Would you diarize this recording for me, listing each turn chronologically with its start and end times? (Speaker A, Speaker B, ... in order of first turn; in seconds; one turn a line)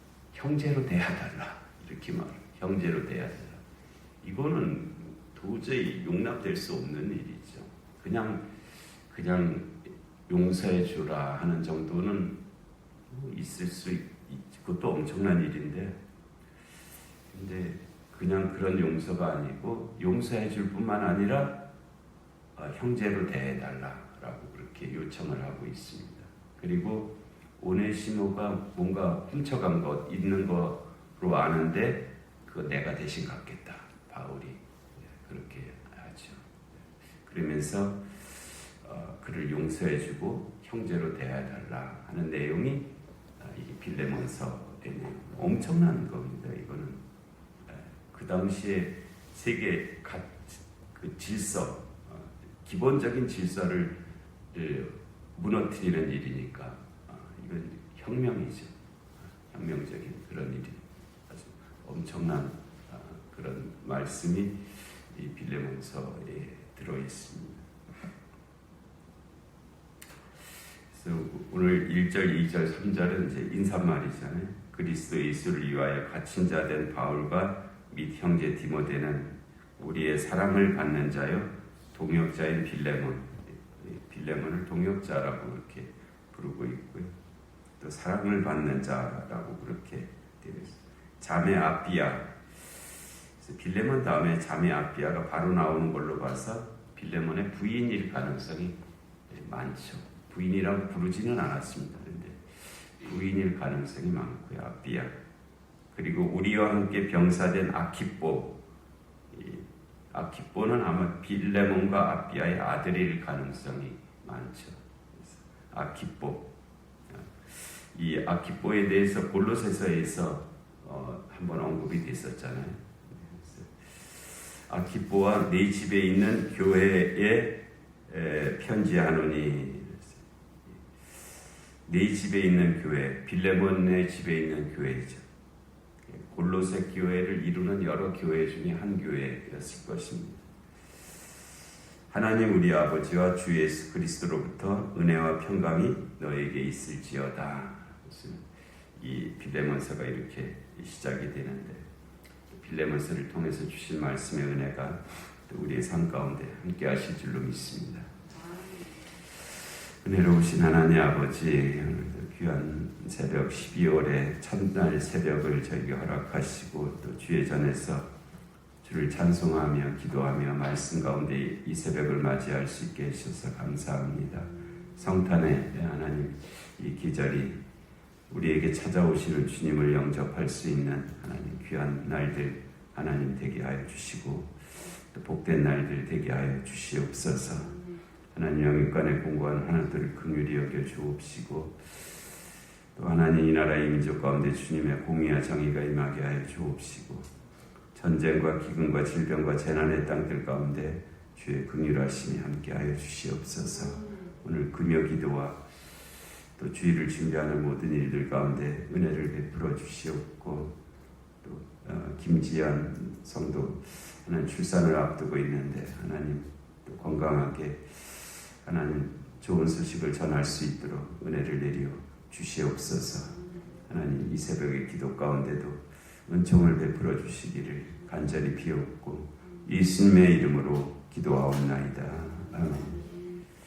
Speaker A: 0.3-3.6
Speaker A: 4.2-8.5
Speaker A: 9.1-12.4
Speaker A: 13.1-16.0
Speaker A: 17.3-21.6
Speaker A: 22.6-36.4
Speaker A: 37.2-47.0
Speaker A: 47.7-54.0
Speaker A: 54.5-58.7
Speaker A: 59.4-67.6
Speaker A: 70.9-87.1
Speaker A: 87.8-92.3
Speaker A: 93.4-98.8
Speaker A: 99.3-105.1
Speaker A: 105.9-108.6
Speaker A: 109.3-116.5
Speaker A: 117.1-130.8
Speaker A: 131.8-135.2
Speaker A: 136.1-140.5
Speaker A: 142.1-151.9
Speaker A: 152.5-158.1
Speaker A: 160.0-168.1
Speaker A: 168.8-177.6
Speaker A: 178.3-187.8
Speaker A: 188.3-192.3
Speaker A: 192.9-197.3
Speaker A: 197.9-205.6
Speaker A: 206.6-210.8
Speaker A: 211.4-233.1